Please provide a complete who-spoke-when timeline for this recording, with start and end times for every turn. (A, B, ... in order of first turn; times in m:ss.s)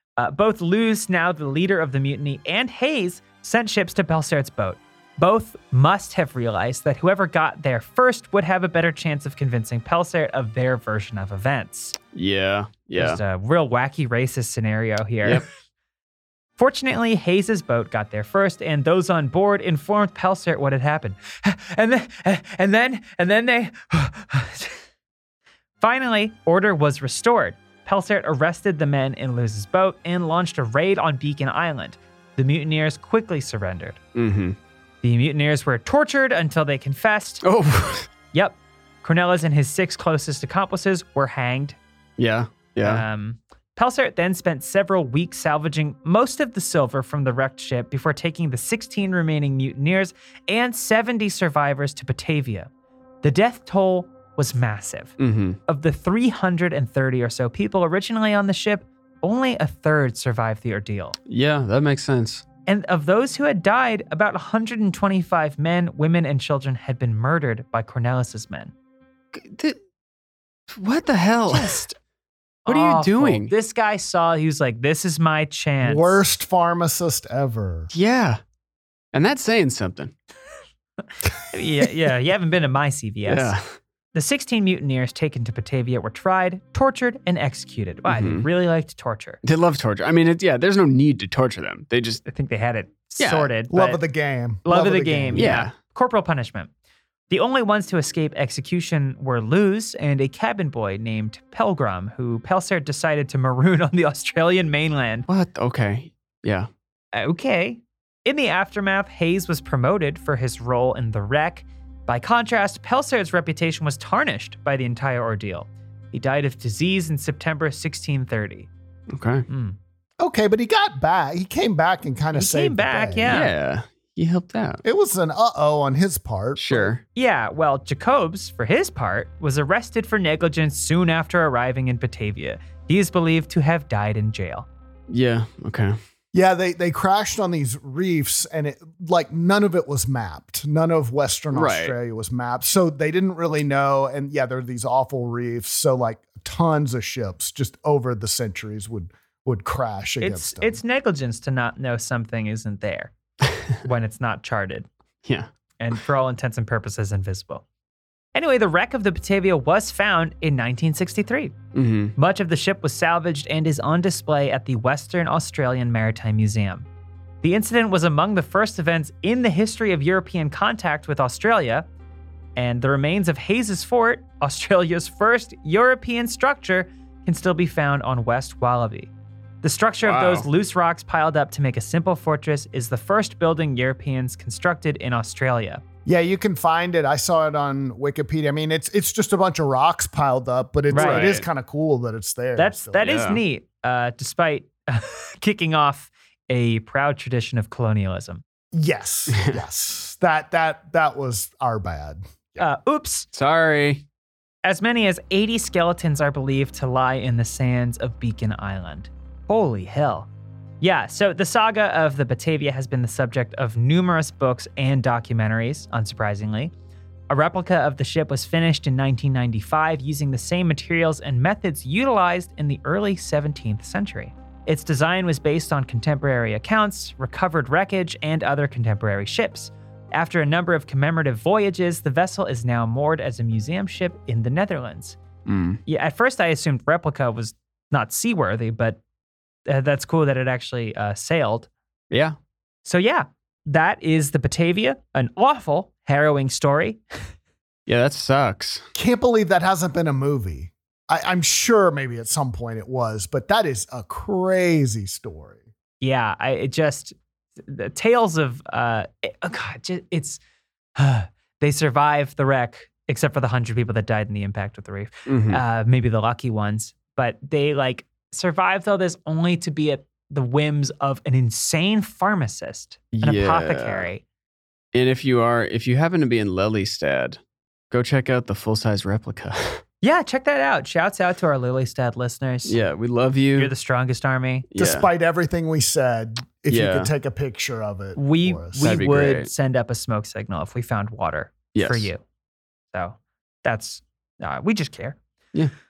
0:00.2-0:12.0 A
0:12.1-0:13.2 B
0:13.0-0:15.4 A
0:16.6-0:24.8 A
0:25.8-0:34.0 A
0:34.1-0:34.6 B
0:35.0-0:37.4 A
0:37.4-0:38.1 B
0:38.3-0:41.8 A
0:42.2-0:43.0 B
0:42.8-0:52.7 A
0:53.2-1:01.2 A
0:55.2-0:55.6 B
1:01.3-1:02.4 B
1:02.6-1:08.7 A
1:09.3-1:09.8 B
1:10.7-1:11.8 B
1:11.5-1:12.0 A
1:12.6-1:16.2 A
1:12.7-1:13.5 B
1:15.8-1:17.9 C
1:17.9-1:18.4 B
1:19.1-1:20.1 B
1:21.5-1:23.5 A
1:23.2-1:23.7 B
1:24.1-1:29.4 A
1:28.1-1:28.5 B
1:29.4-1:32.2 B
1:32.2-1:34.0 A
1:33.2-1:33.5 B
1:33.7-1:35.6 C
1:34.6-1:36.7 A
1:35.3-1:35.7 B
1:37.3-1:45.2 A
1:45.3-1:46.7 B
1:47.1-1:58.7 A
1:59.1-1:59.4 B
1:59.5-1:59.8 A
2:00.2-2:03.4 C
2:02.3-2:03.5 A
2:03.3-2:04.8 B
2:04.8-2:06.9 C
2:06.6-2:07.0 B
2:07.1-2:14.7 A
2:15.1-2:16.0 B
2:16.3-2:30.8 C
2:21.5-2:21.9 B
2:30.2-2:33.1 A
2:33.8-2:34.9 A
2:35.8-2:37.6 A
2:38.3-2:41.6 A
2:41.7-2:42.1 B
2:42.2-2:46.8 A
2:47.4-2:51.8 A
2:52.6-2:59.1 A
2:59.6-3:05.8 A
3:00.0-3:00.5 B
3:06.0-3:13.0 C
3:10.9-3:11.4 A
3:10.9-3:11.4 B
3:12.6-3:18.4 A
3:13.0-3:13.4 B
3:18.7-3:22.6 C
3:19.3-3:19.6 B
3:22.6-3:23.3 A
3:23.3-3:24.0 B
3:24.6-3:30.3 A
3:30.8-3:36.7 A
3:37.3-3:55.2 A
3:55.4-3:55.8 B
3:55.8-3:59.0 A
3:59.6-4:01.7 A
4:02.8-4:07.0 A
4:07.9-4:08.8 B
4:08.9-4:15.6 C
4:16.0-4:20.4 A
4:21.0-4:34.2 A
4:25.3-4:25.6 B
4:33.1-4:34.1 B
4:34.9-4:37.4 B
4:37.9-4:39.8 B
4:40.0-4:42.8 A
4:42.6-4:43.7 B
4:43.6-4:44.7 A
4:44.7-4:45.1 B
4:44.8-4:48.8 C
4:46.7-4:47.1 B
4:48.2-4:52.2 A
4:48.8-4:49.5 B
4:51.7-4:52.1 B
4:52.9-4:55.2 A